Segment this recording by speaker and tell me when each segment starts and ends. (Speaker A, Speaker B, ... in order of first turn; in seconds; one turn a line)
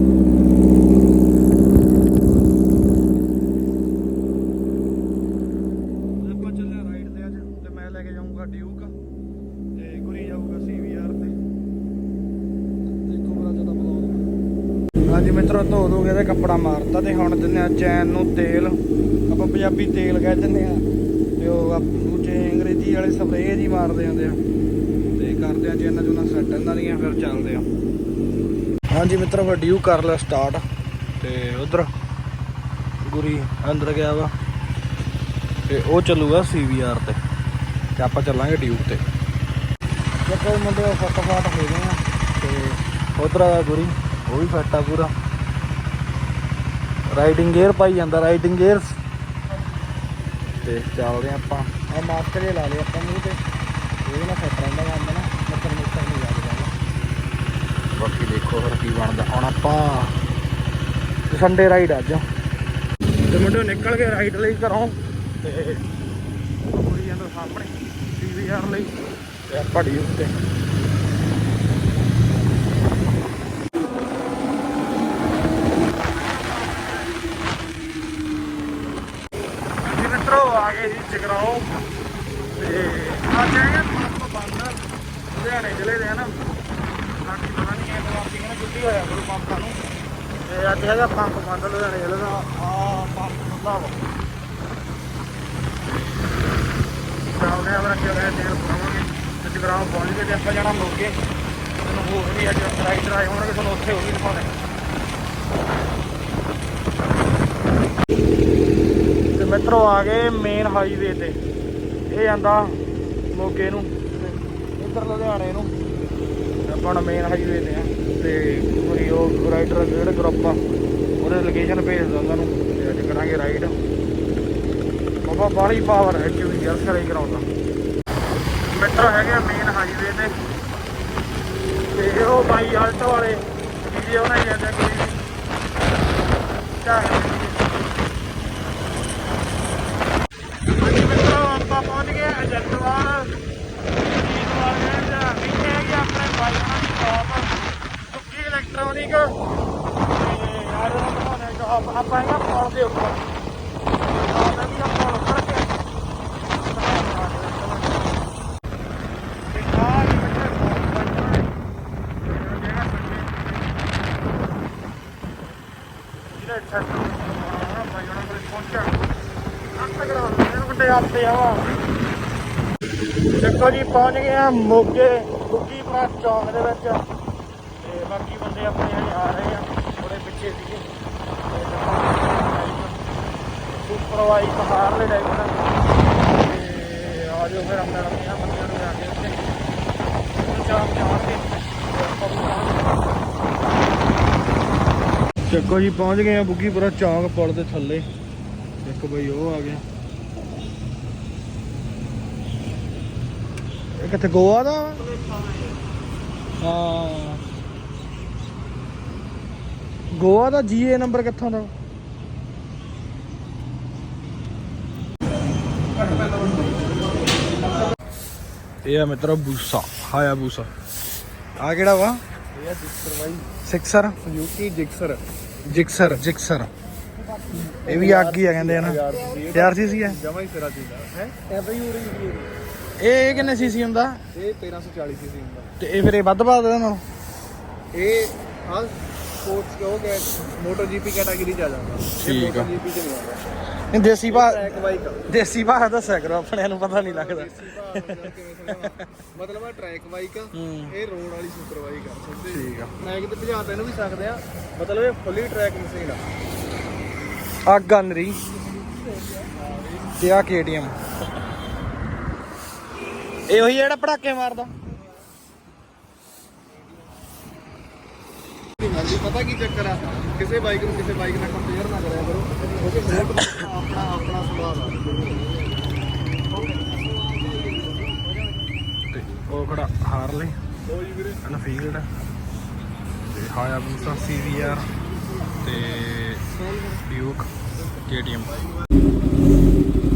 Speaker A: 6.2-8.9
Speaker A: 9.7-11.4
Speaker A: 12.8-14.3
Speaker A: 15.1-18.8
Speaker A: 19.3-20.8
Speaker A: 21.4-24.4
Speaker A: 25.2-27.6
Speaker A: 28.9-30.6
Speaker A: 31.2-31.9
Speaker A: 33.0-34.3
Speaker A: 35.7-37.2
Speaker A: 38.0-39.0
Speaker A: 40.3-45.1
Speaker A: 47.1-49.0
Speaker A: 50.6-53.4
Speaker A: 54.0-56.7
Speaker A: 58.0-60.1
Speaker A: 61.3-62.2
Speaker A: 63.3-65.8
Speaker A: 66.7-68.9
Speaker A: 69.5-70.3
Speaker A: 76.1-77.1
Speaker A: 79.8-81.6
Speaker A: 82.6-84.8
Speaker A: 85.3-86.3
Speaker A: 87.2-89.8
Speaker A: 90.5-94.0
Speaker A: 97.2-101.1
Speaker A: 101.8-104.5
Speaker A: 109.3-111.4
Speaker A: 112.1-112.8
Speaker A: 113.3-115.7
Speaker A: 116.7-120.6
Speaker A: 121.2-123.7
Speaker A: 125.2-127.5
Speaker A: 128.7-130.3
Speaker A: 131.9-135.2
Speaker A: 136.7-137.6
Speaker A: 140.8-143.4
Speaker A: 144.0-147.5
Speaker A: 148.1-149.3
Speaker A: 150.1-153.2
Speaker A: 154.0-155.7
Speaker A: 156.5-158.2
Speaker A: 159.5-161.5
Speaker A: 162.2-163.4
Speaker A: 166.3-168.9
Speaker A: 169.8-171.8
Speaker A: 173.4-177.0
Speaker A: 177.8-180.8
Speaker A: 181.5-183.0
Speaker A: 183.8-185.6
Speaker A: 186.3-189.4
Speaker A: 190.5-192.9
Speaker A: 195.5-198.1
Speaker A: 198.8-199.8
Speaker A: 204.0-205.1
Speaker A: 206.6-207.4
Speaker A: 210.1-211.7
Speaker A: 218.8-220.7
Speaker A: 221.6-222.2
Speaker B: 222.5-223.5
Speaker A: 223.6-224.2
Speaker B: 224.2-225.2
Speaker A: 225.7-226.7
Speaker B: 227.4-232.5
Speaker A: 227.6-230.2
Speaker A: 233.0-234.2
Speaker B: 234.3-235.7
Speaker A: 235.8-237.0
Speaker B: 237.9-243.4
Speaker A: 242.1-242.7
Speaker A: 243.9-244.6
Speaker B: 244.3-245.2
Speaker A: 245.3-249.1
Speaker B: 246.9-256.2
Speaker A: 250.5-250.9
Speaker A: 252.5-253.0
Speaker A: 257.7-258.4
Speaker B: 259.4-259.9
Speaker A: 260.1-261.0
Speaker A: 263.5-264.7
Speaker B: 268.8-275.7
Speaker A: 273.1-273.7
Speaker B: 276.5-278.2
Speaker A: 279.1-280.6
Speaker B: 280.9-281.4
Speaker A: 281.4-282.1
Speaker A: 283.2-284.9
Speaker A: 285.6-288.6